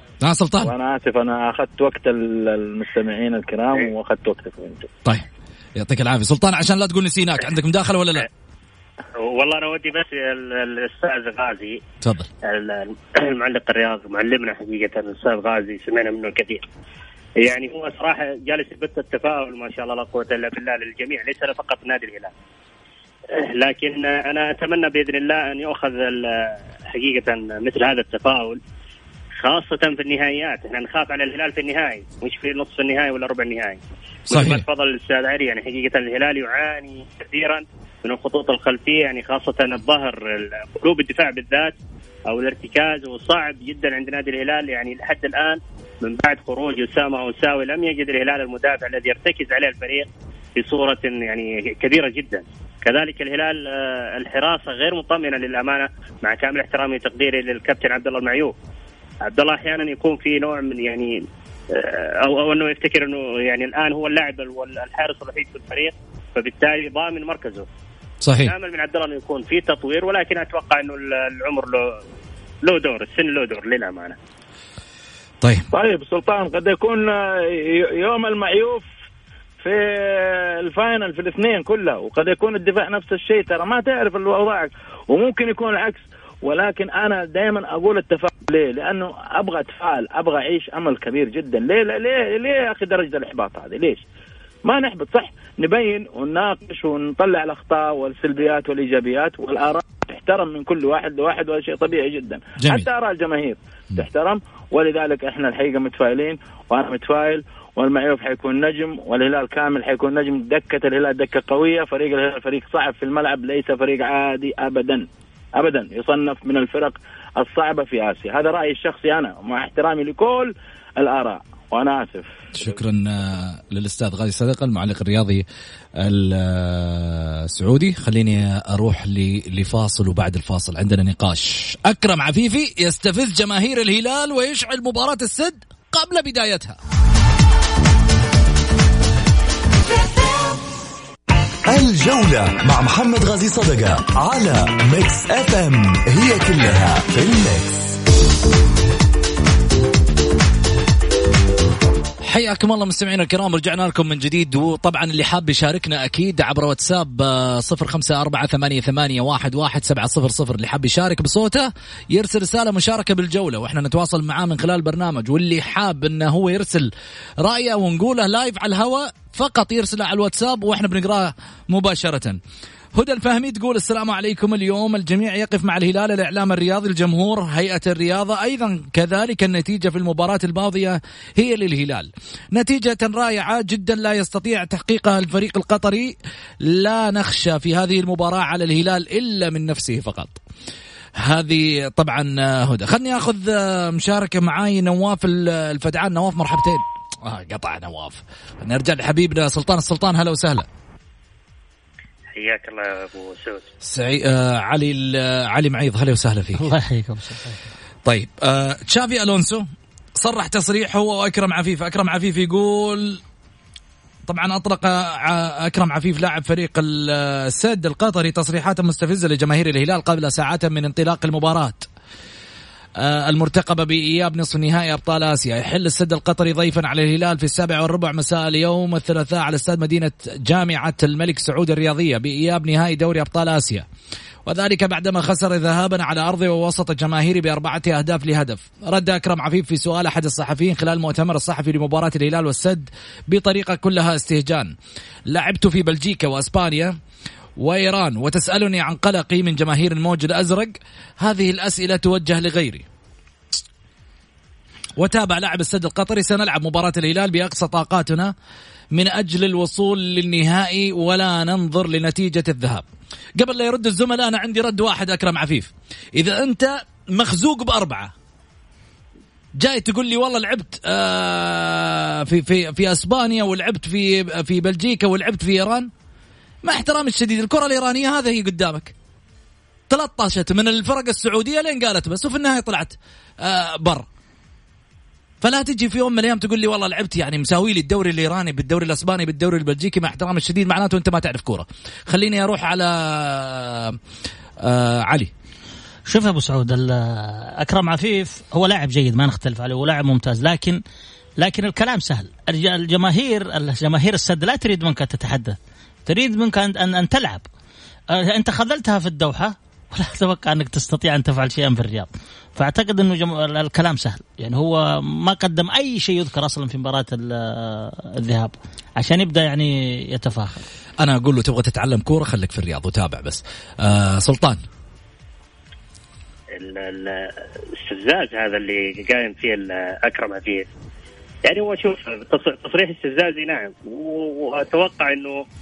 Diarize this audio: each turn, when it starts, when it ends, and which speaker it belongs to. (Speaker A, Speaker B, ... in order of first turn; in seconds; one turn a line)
Speaker A: 0.2-0.7
Speaker B: 0.6-4.9
Speaker A: 5.0-8.3
Speaker C: 9.2-11.8
Speaker A: 12.0-12.3
Speaker C: 12.4-16.7
Speaker C: 17.4-22.3
Speaker C: 23.3-28.6
Speaker C: 29.4-41.8
Speaker A: 34.3-34.6
Speaker C: 42.3-58.5
Speaker C: 59.2-61.2
Speaker C: 61.7-67.7
Speaker A: 68.2-68.5
Speaker C: 68.4-72.0
Speaker C: 72.6-74.2
Speaker B: 75.7-78.9
Speaker B: 79.6-94.0
Speaker B: 94.7-122.6
Speaker A: 102.6-102.9
Speaker A: 122.5-125.5
Speaker A: 126.0-136.8
Speaker D: 141.7-148.0
Speaker A: 152.2-166.9
Speaker A: 167.4-172.4
Speaker A: 172.9-190.4
Speaker A: 191.2-200.7
Speaker C: 202.3-203.7
Speaker A: 203.8-206.7
Speaker E: 206.6-207.7
Speaker A: 208.1-209.7
Speaker A: 210.2-213.2
Speaker A: 214.3-221.9
Speaker A: 223.0-233.9
Speaker A: 234.5-244.7
Speaker A: 245.3-247.0
Speaker A: 247.6-252.8
Speaker A: 255.0-258.3
Speaker A: 258.9-262.9
Speaker A: 263.4-268.1
Speaker A: 269.6-275.9
Speaker A: 276.6-278.9
Speaker A: 279.9-284.1
Speaker A: 285.4-294.0
Speaker A: 294.6-295.3
Speaker E: 296.1-300.8
Speaker E: 301.4-307.5
Speaker E: 308.1-320.6
Speaker A: 321.0-324.6
Speaker C: 326.6-330.7
Speaker C: 331.5-335.4